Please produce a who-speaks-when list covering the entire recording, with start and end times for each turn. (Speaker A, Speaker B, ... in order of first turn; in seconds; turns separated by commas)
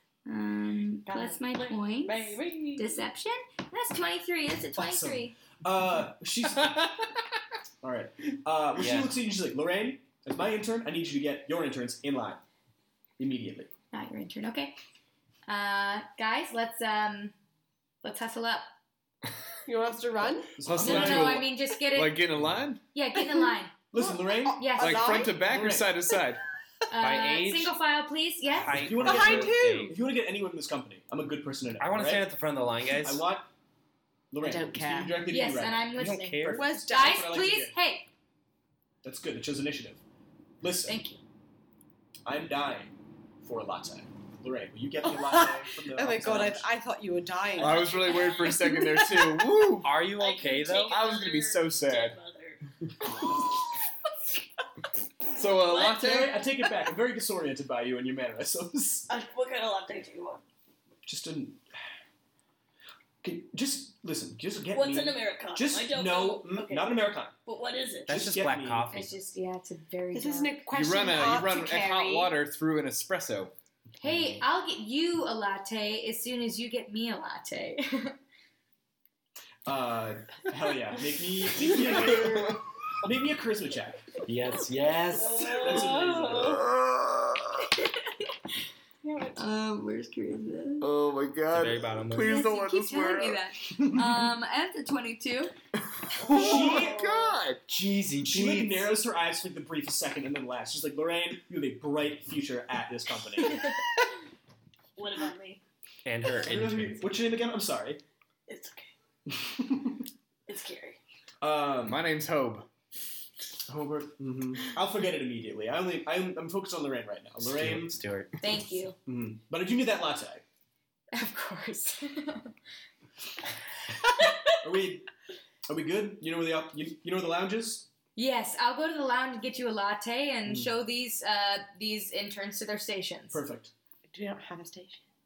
Speaker A: 0.2-5.3, Speaker B: 1.1-3.0, Speaker C: 4.7-7.0, Speaker C: 7.8-12.4, Speaker D: 8.8-9.2, Speaker C: 13.2-13.7, Speaker A: 13.9-14.8, Speaker A: 15.5-17.3, Speaker A: 18.0-18.7, Speaker E: 19.6-20.6, Speaker C: 20.6-21.4, Speaker F: 20.6-22.8, Speaker A: 20.8-22.3, Speaker A: 22.9-23.7, Speaker C: 23.9-26.0, Speaker E: 23.9-25.5, Speaker A: 24.5-25.3, Speaker F: 24.8-26.4, Speaker A: 26.9-29.0, Speaker D: 27.0-27.8, Speaker D: 28.5-30.0, Speaker C: 28.7-32.3, Speaker E: 29.0-29.9, Speaker D: 31.8-33.3, Speaker C: 32.9-33.5, Speaker C: 34.3-37.7, Speaker E: 34.4-35.2, Speaker A: 35.3-38.0, Speaker D: 35.9-36.7, Speaker E: 36.5-37.4, Speaker C: 39.0-40.0, Speaker C: 40.6-41.0, Speaker A: 40.9-41.2, Speaker C: 42.2-46.7, Speaker E: 45.0-48.3, Speaker F: 47.6-50.0, Speaker B: 47.6-48.8, Speaker D: 49.8-51.0, Speaker B: 50.1-52.6, Speaker F: 50.9-52.2, Speaker F: 55.3-56.4, Speaker B: 55.5-56.2, Speaker C: 55.8-59.1, Speaker B: 59.1-60.4, Speaker C: 61.0-61.6, Speaker C: 63.2-67.3, Speaker B: 64.7-68.1, Speaker D: 68.1-69.1, Speaker C: 68.1-68.9, Speaker A: 68.9-70.6, Speaker E: 70.1-72.4, Speaker F: 70.7-73.5, Speaker A: 74.0-78.2, Speaker D: 74.0-74.4, Speaker C: 79.7-84.2, Speaker F: 82.2-82.5, Speaker D: 84.2-85.9, Speaker B: 85.1-86.6, Speaker C: 85.2-86.6, Speaker F: 86.4-87.7, Speaker B: 89.0-89.4, Speaker A: 89.3-90.9, Speaker F: 90.8-93.5, Speaker D: 91.5-92.4, Speaker A: 92.2-95.5, Speaker F: 95.9-97.7, Speaker C: 96.2-97.1, Speaker B: 96.2-97.3, Speaker D: 97.7-98.9, Speaker C: 98.2-103.7, Speaker B: 105.0-105.6, Speaker D: 106.0-107.1, Speaker C: 106.4-108.0, Speaker B: 108.5-108.9, Speaker C: 109.3-110.0, Speaker B: 110.5-111.0, Speaker C: 111.4-112.0, Speaker F: 111.8-112.7, Speaker C: 113.7-118.0, Speaker D: 117.4-118.4, Speaker A: 118.4-118.9, Speaker C: 119.0-120.4, Speaker A: 121.1-122.5, Speaker C: 124.6-125.1, Speaker C: 125.7-127.9, Speaker A: 128.2-133.4, Speaker C: 133.3-133.7, Speaker E: 134.1-135.0